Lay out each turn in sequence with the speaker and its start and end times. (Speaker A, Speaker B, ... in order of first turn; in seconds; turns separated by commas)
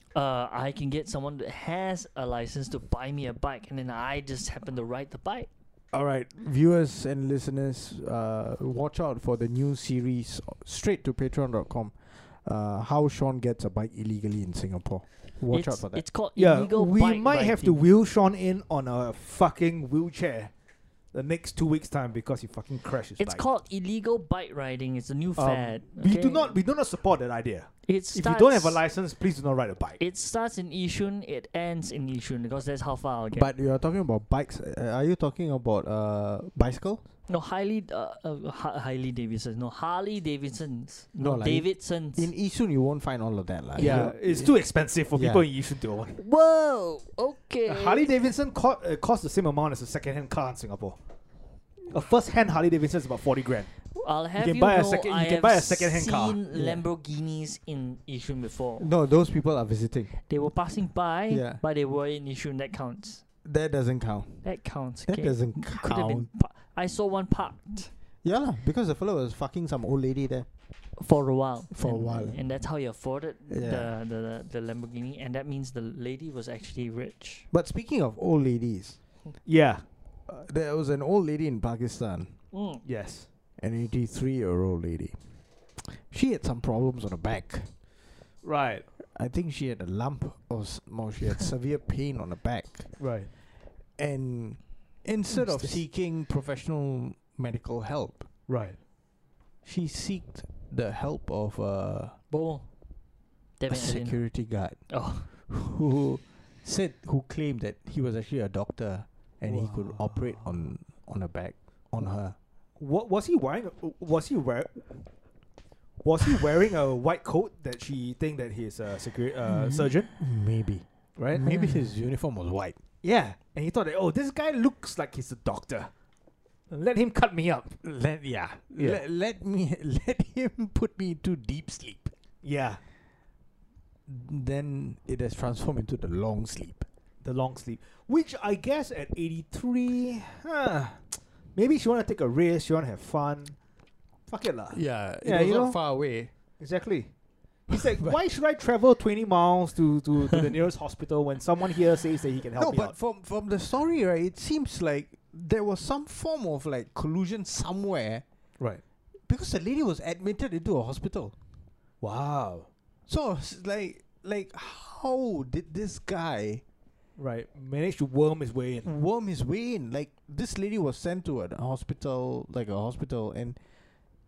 Speaker A: 0.1-5.5, Speaker B: 5.9-16.0, Speaker A: 15.5-17.8, Speaker C: 16.4-20.5, Speaker C: 21.1-23.4, Speaker A: 23.2-26.6, Speaker C: 25.4-30.0, Speaker A: 27.9-28.8, Speaker A: 30.0-33.5, Speaker B: 33.3-37.0, Speaker A: 37.3-42.3, Speaker B: 41.2-44.5, Speaker C: 43.8-46.2, Speaker A: 43.8-44.1, Speaker B: 45.1-45.4, Speaker A: 46.2-48.1, Speaker C: 47.7-51.0, Speaker C: 51.9-53.7, Speaker A: 54.0-58.9, Speaker C: 54.4-56.4, Speaker B: 56.5-56.8, Speaker B: 58.8-60.1, Speaker A: 60.3-63.2, Speaker B: 61.3-61.6, Speaker B: 63.4-64.5, Speaker A: 64.4-67.9, Speaker B: 65.0-66.3, Speaker B: 68.2-70.5, Speaker A: 71.0-77.5, Speaker B: 71.7-72.4, Speaker B: 73.5-73.9, Speaker B: 77.5-79.0, Speaker C: 79.5-79.8, Speaker B: 80.3-82.4, Speaker A: 82.5-82.8, Speaker C: 82.8-83.3, Speaker B: 83.6-85.2, Speaker B: 85.8-87.7, Speaker C: 88.4-88.8, Speaker B: 89.0-93.0, Speaker C: 93.0-93.3, Speaker B: 94.0-98.3, Speaker A: 95.3-95.8, Speaker C: 98.5-98.8, Speaker B: 99.6-102.2, Speaker A: 102.3-102.7, Speaker A: 103.6-104.2, Speaker B: 103.7-112.4, Speaker A: 104.9-105.3, Speaker C: 109.5-110.5, Speaker C: 112.8-115.1, Speaker C: 116.0-120.1, Speaker B: 119.5-122.8, Speaker C: 121.2-121.5, Speaker C: 123.0-125.9, Speaker C: 126.7-127.8, Speaker B: 127.8-132.1, Speaker C: 128.8-129.0, Speaker C: 132.4-132.8, Speaker B: 134.1-136.9, Speaker C: 137.2-143.6, Speaker C: 144.3-145.8, Speaker B: 144.7-146.3, Speaker C: 146.6-147.1, Speaker C: 147.7-152.9, Speaker B: 147.7-148.1, Speaker B: 152.6-158.2, Speaker B: 159.3-161.3, Speaker C: 162.0-162.7, Speaker B: 163.1-166.6, Speaker C: 167.2-168.9, Speaker B: 168.8-173.6